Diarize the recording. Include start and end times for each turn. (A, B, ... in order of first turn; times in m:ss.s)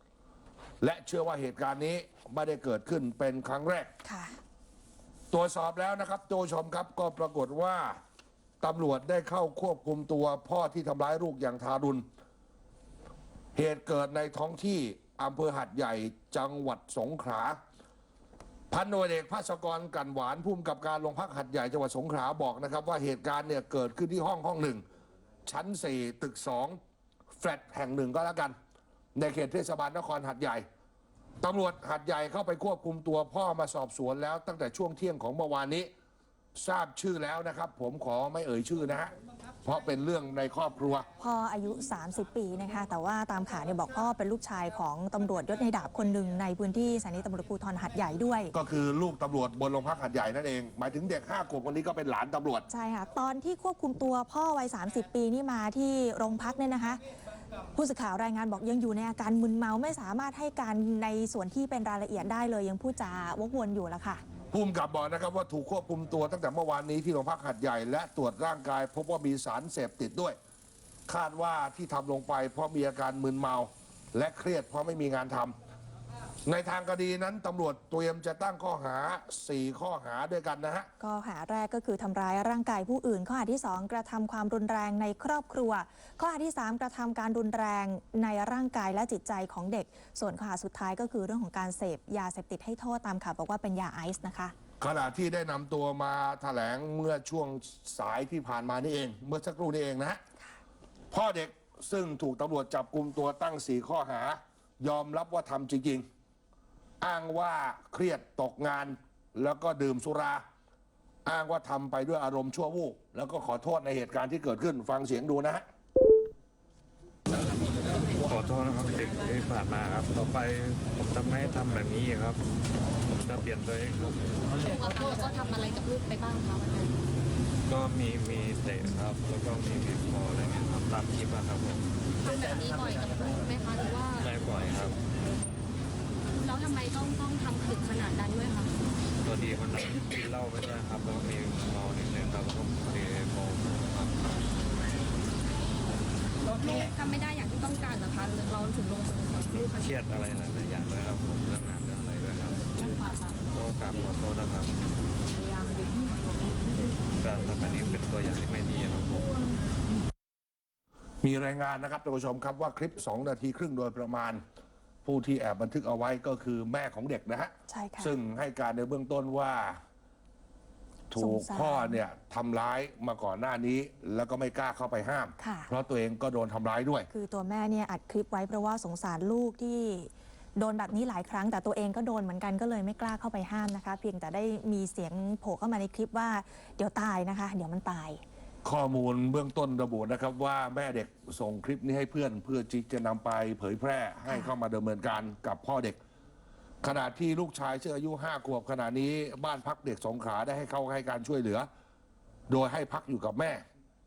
0:00.8-0:03.9 A
0:04.1-0:04.3 B
0:05.3-0:08.0 A
0:08.6-0:12.0 A
0:13.6-0:17.6 A
0:18.7-0:24.8 A
0:25.5-0:26.8 A
0:27.3-0:28.6 A
0:29.2-0:30.6 A
0:31.4-0:35.9 A
0:36.6-0:39.1 A
0:39.6-0:41.1 A
0:41.2-0:48.5 B
0:48.5-0:52.7 A
0:52.7-0:57.0 B
0:57.8-1:04.2 B
1:04.5-1:10.4 A
1:11.1-1:15.6 A
1:16.4-1:20.9 A
1:21.0-1:34.5 B
1:34.8-1:40.2 A
1:41.1-1:46.1 A
1:47.0-1:50.4 A
1:51.2-1:55.6 A
1:58.2-2:02.4 C
2:03.1-2:04.6 C
2:04.6-2:06.9 D
2:07.7-2:11.9 C
2:12.2-2:14.3 D
2:14.2-2:15.0 C
2:16.4-2:18.7 D
2:19.2-2:24.3 C
2:26.6-2:29.5 D
2:29.5-2:32.7 C
2:33.5-2:34.8 C
2:37.2-2:39.4 C
2:41.2-2:44.4 A
2:45.0-2:49.8 A
2:47.7-2:48.1 B
2:51.1-2:57.1 A
2:51.2-2:52.0 B
2:55.4-2:55.7 B
2:57.1-3:08.2 B
3:08.6-3:16.0 A
3:16.8-3:21.7 A
3:22.5-3:23.6 A